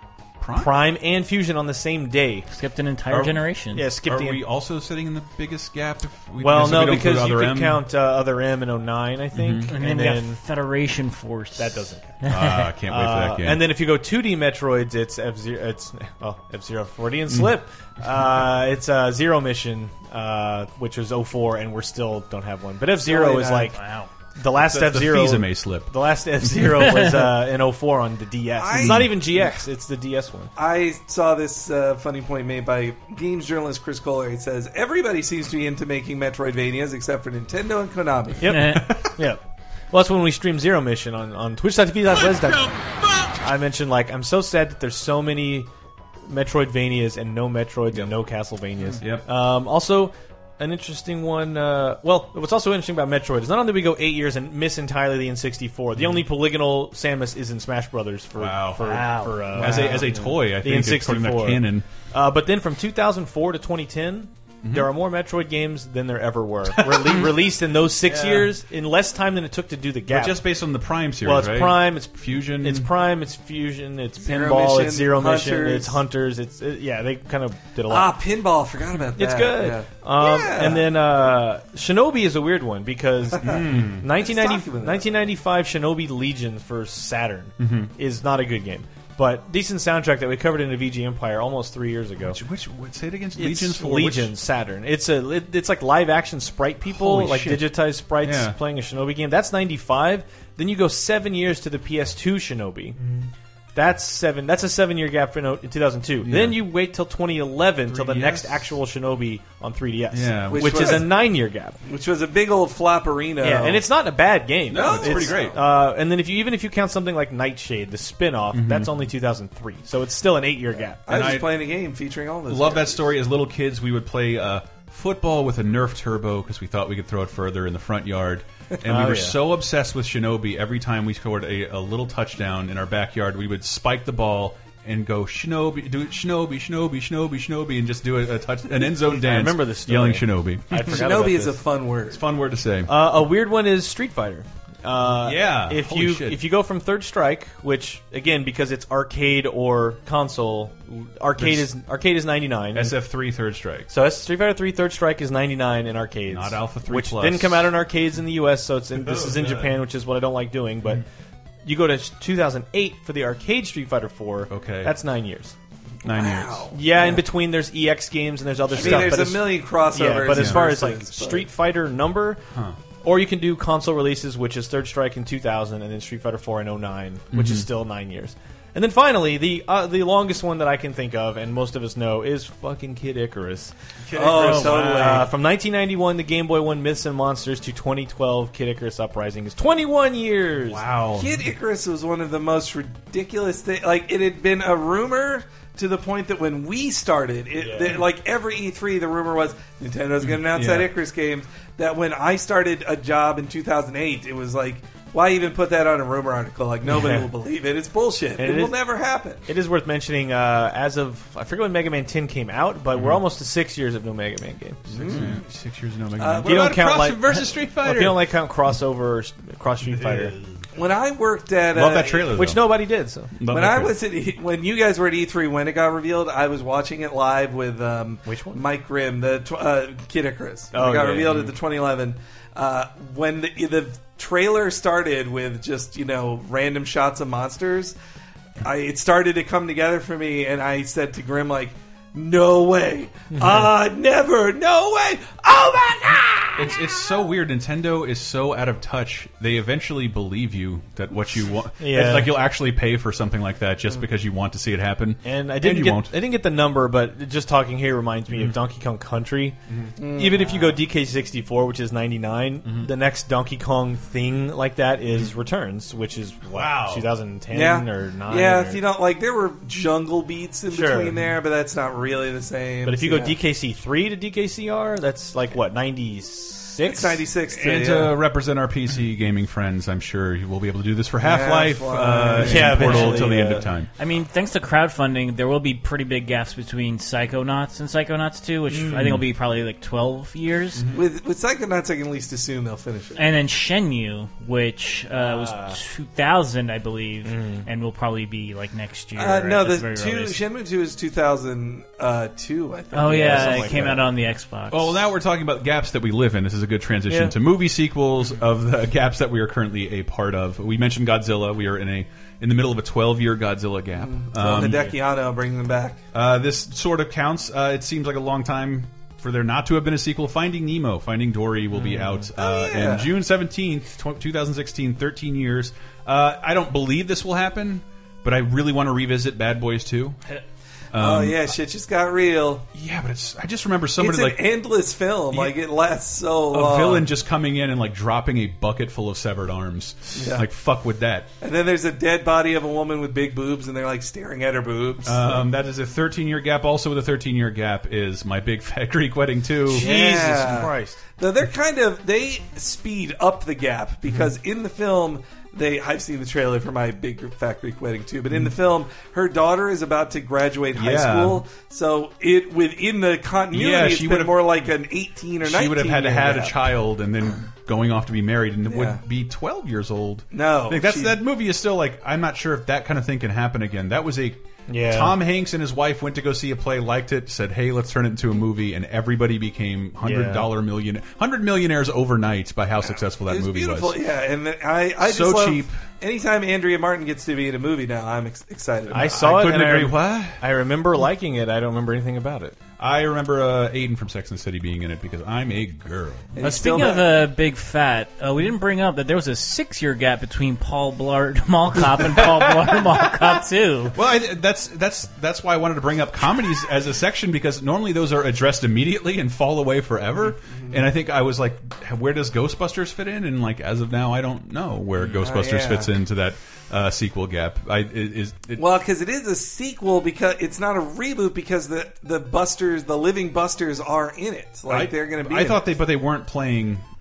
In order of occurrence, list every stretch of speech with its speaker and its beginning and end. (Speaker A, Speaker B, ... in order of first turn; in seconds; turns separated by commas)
Speaker A: 0.4-0.8, Speaker B: 0.6-2.5, Speaker C: 2.5-3.9, Speaker A: 3.1-3.4, Speaker B: 3.7-4.4, Speaker A: 4.0-7.8, Speaker B: 6.4-10.4, Speaker A: 9.3-9.7, Speaker C: 9.7-12.7, Speaker B: 11.6-12.3, Speaker A: 12.3-13.7, Speaker B: 12.9-23.8, Speaker D: 23.0-23.7, Speaker C: 23.7-24.1, Speaker B: 24.4-30.5, Speaker A: 24.5-25.9, Speaker D: 28.6-29.1, Speaker A: 28.7-29.1, Speaker D: 30.6-38.4, Speaker B: 38.4-39.4, Speaker C: 38.5-38.8, Speaker B: 39.9-42.7, Speaker B: 43.4-45.7, Speaker B: 46.3-70.4, Speaker A: 49.0-49.2, Speaker A: 58.4-59.0, Speaker C: 58.8-59.7, Speaker A: 59.6-61.9, Speaker A: 64.6-64.9, Speaker A: 66.7-67.4, Speaker A: 68.0-68.5, Speaker A: 70.1-72.9, Speaker B: 71.2-78.1, Speaker D: 74.2-76.0, Speaker D: 77.9-80.9, Speaker B: 79.2-92.4, Speaker A: 83.4-84.0, Speaker D: 83.4-85.1, Speaker A: 87.6-87.9, Speaker A: 92.2-94.3, Speaker B: 93.3-103.0, Speaker A: 96.9-98.6, Speaker B: 103.7-111.7, Speaker A: 106.2-106.6, Speaker A: 107.8-108.7, Speaker A: 110.1-111.1, Speaker D: 110.5-111.1, Speaker D: 111.8-113.8, Speaker B: 113.4-121.1, Speaker A: 114.7-115.6, Speaker D: 114.7-115.5, Speaker A: 118.5-118.9, Speaker D: 121.0-123.0, Speaker A: 121.1-121.5, Speaker A: 122.5-141.0, Speaker B: 128.8-129.4, Speaker B: 138.8-141.6, Speaker D: 140.9-142.2, Speaker A: 142.1-142.9, Speaker B: 142.9-152.9, Speaker A: 145.2-146.4, Speaker A: 151.4-151.7, Speaker A: 152.7-153.9, Speaker B: 153.9-161.0, Speaker A: 156.3-157.7, Speaker A: 158.9-159.8, Speaker B: 161.6-165.5, Speaker A: 164.5-164.9, Speaker A: 166.0-166.7, Speaker D: 166.1-167.2, Speaker B: 166.7-172.4, Speaker A: 168.7-169.2, Speaker D: 168.7-171.5, Speaker A: 170.3-170.7, Speaker A: 172.5-172.8, Speaker B: 173.0-183.7, Speaker A: 177.3-177.7, Speaker A: 184.1-185.2, Speaker D: 184.1-185.3, Speaker B: 184.3-190.8, Speaker A: 190.7-191.4, Speaker D: 191.2-209.4, Speaker B: 197.6-198.0, Speaker A: 200.3-200.9, Speaker B: 206.8-207.2, Speaker B: 208.4-208.7, Speaker B: 209.4-215.2, Speaker A: 212.9-213.2, Speaker D: 214.9-215.4, Speaker A: 215.0-218.2, Speaker D: 216.2-216.6, Speaker B: 216.4-220.3, Speaker A: 220.0-220.3, Speaker D: 220.7-222.3, Speaker A: 221.7-222.7, Speaker B: 222.3-223.3, Speaker A: 223.3-223.9, Speaker D: 223.5-237.9, Speaker B: 228.2-228.6, Speaker B: 230.7-231.4, Speaker D: 238.6-246.7, Speaker A: 246.6-256.1, Speaker B: 251.8-252.4, Speaker B: 255.2-259.6, Speaker A: 258.3-258.6, Speaker A: 259.7-259.9, Speaker D: 260.0-260.8, Speaker B: 260.1-268.8, Speaker A: 262.6-262.9, Speaker A: 266.5-267.1, Speaker D: 267.5-273.4, Speaker B: 270.7-271.1, Speaker B: 272.8-277.2, Speaker D: 276.8-278.1, Speaker A: 277.5-283.9, Speaker D: 281.2-283.6, Speaker B: 282.4-283.6, Speaker C: 284.0-290.9, Speaker A: 290.7-291.0, Speaker D: 290.9-293.2, Speaker C: 293.1-300.4, Speaker B: 295.1-295.8, Speaker B: 297.2-297.6, Speaker D: 299.1-303.9, Speaker C: 302.9-305.0, Speaker B: 303.0-304.0, Speaker A: 304.7-314.9, Speaker B: 307.1-307.3, Speaker D: 314.0-316.0, Speaker A: 316.1-330.2, Speaker B: 321.7-322.3, Speaker D: 322.4-323.1, Speaker A: 330.9-331.5, Speaker D: 330.9-332.6, Speaker A: 332.7-334.4, Speaker D: 334.0-337.1, Speaker A: 336.5-341.3, Speaker D: 340.1-340.4, Speaker D: 341.4-345.4, Speaker A: 345.0-349.9, Speaker B: 349.7-351.0, Speaker D: 349.7-366.6, Speaker A: 360.7-361.4, Speaker A: 363.5-364.4, Speaker A: 365.4-384.0, Speaker D: 368.7-369.0, Speaker D: 370.3-371.2, Speaker B: 374.7-375.2, Speaker B: 380.0-380.5, Speaker D: 382.8-389.1, Speaker A: 385.0-385.8, Speaker A: 388.9-390.4, Speaker B: 388.9-392.6, Speaker A: 392.8-396.4, Speaker D: 396.3-397.1, Speaker C: 396.4-403.9, Speaker A: 403.9-418.6, Speaker D: 410.4-410.8, Speaker D: 415.0-415.9, Speaker D: 418.6-425.6, Speaker A: 424.7-426.9